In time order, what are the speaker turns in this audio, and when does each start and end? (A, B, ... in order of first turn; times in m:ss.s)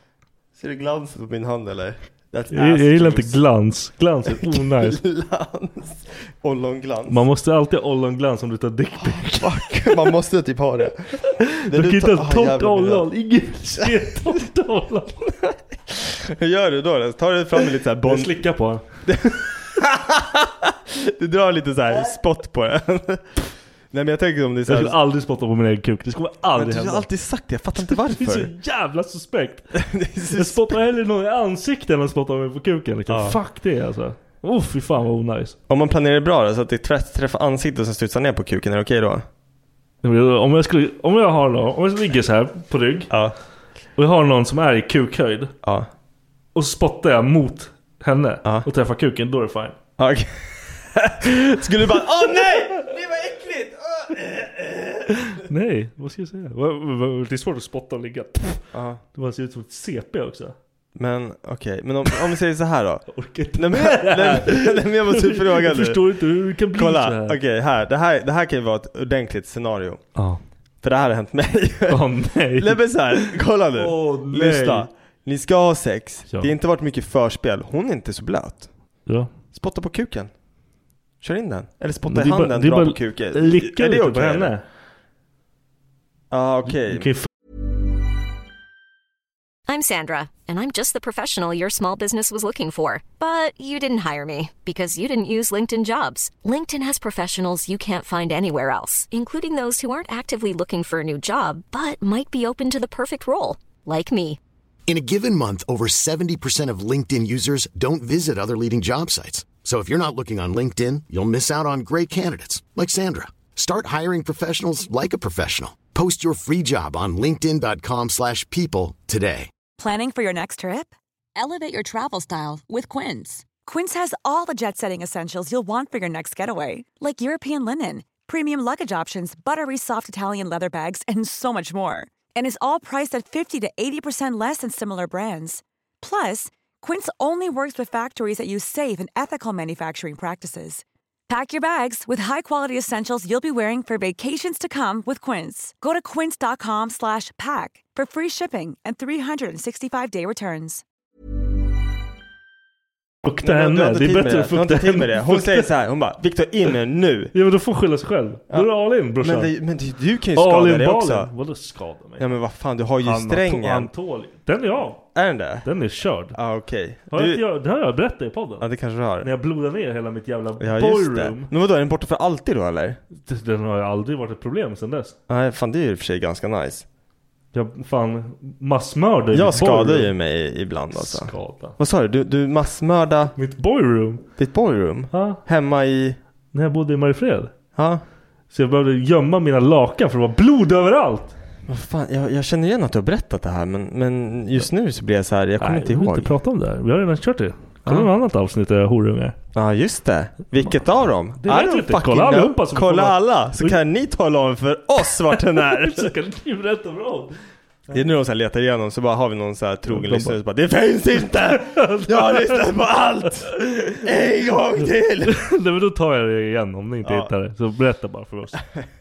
0:00.5-0:03.4 A
0:02.5-0:05.0 B
0:04.2-0:07.2 A
0:07.1-0:10.1 B
0:09.0-0:13.1 A
0:11.4-0:15.3 B
0:13.8-0:14.3 A
0:15.4-0:18.4 A
0:18.0-0:18.8 B
0:19.0-0:25.0 A
0:24.7-0:27.1 B
0:26.5-0:28.5 A
0:27.8-0:29.7 B
0:29.7-0:30.7 A
0:30.3-0:35.6 B
0:33.1-0:33.4 A
0:35.7-0:39.2 A
0:40.0-0:43.1 B
0:43.1-0:43.3 A
0:44.0-0:45.5 B
0:45.6-0:45.9 A
0:46.5-0:49.7 B
0:50.0-0:55.4 A
0:55.4-0:58.6 B
0:58.7-0:59.0 A
0:59.1-1:00.6 B
1:00.9-1:06.0 A
1:03.1-1:07.4 B
1:06.7-1:10.1 A
1:10.1-1:10.4 B
1:10.8-1:18.7 A
1:11.9-1:14.9 B
1:19.0-1:19.3 B
1:19.5-1:20.3 A
1:21.2-1:24.5 A
1:22.1-1:24.6 B
1:26.3-1:27.1 A
1:26.8-1:27.3 B
1:29.7-1:44.4 C
1:44.9-1:59.5 D
1:59.8-2:30.8 E
2:33.2-2:35.7 B
2:33.4-2:37.3 A
2:37.3-2:39.5 B
2:38.5-2:41.3 A
2:40.4-2:42.3 B
2:42.2-2:43.9 A
2:43.0-2:45.1 B
2:45.1-2:45.7 A
2:45.6-2:46.4 B
2:46.3-2:47.4 A
2:47.1-2:48.7 B
2:48.6-2:49.3 A
2:49.2-2:51.5 B
2:50.6-2:53.0 A
2:53.1-2:55.1 B
2:55.3-2:56.8 A
2:57.5-3:00.1 B
2:59.3-3:03.3 A
3:01.0-3:01.8 B
3:03.4-3:04.2 B
3:04.4-3:06.2 A
3:05.1-3:05.4 B
3:06.5-3:07.5 B
3:07.7-3:08.0 A
3:08.5-3:11.3 B
3:11.7-3:16.3 A
3:15.6-3:19.4 B
3:19.5-3:26.1 A
3:21.4-3:23.8 B
3:25.3-3:27.3 B
3:27.9-3:35.4 A
3:29.9-3:30.4 B
3:31.5-3:32.6 B
3:35.2-3:38.6 B
3:37.0-3:37.3 A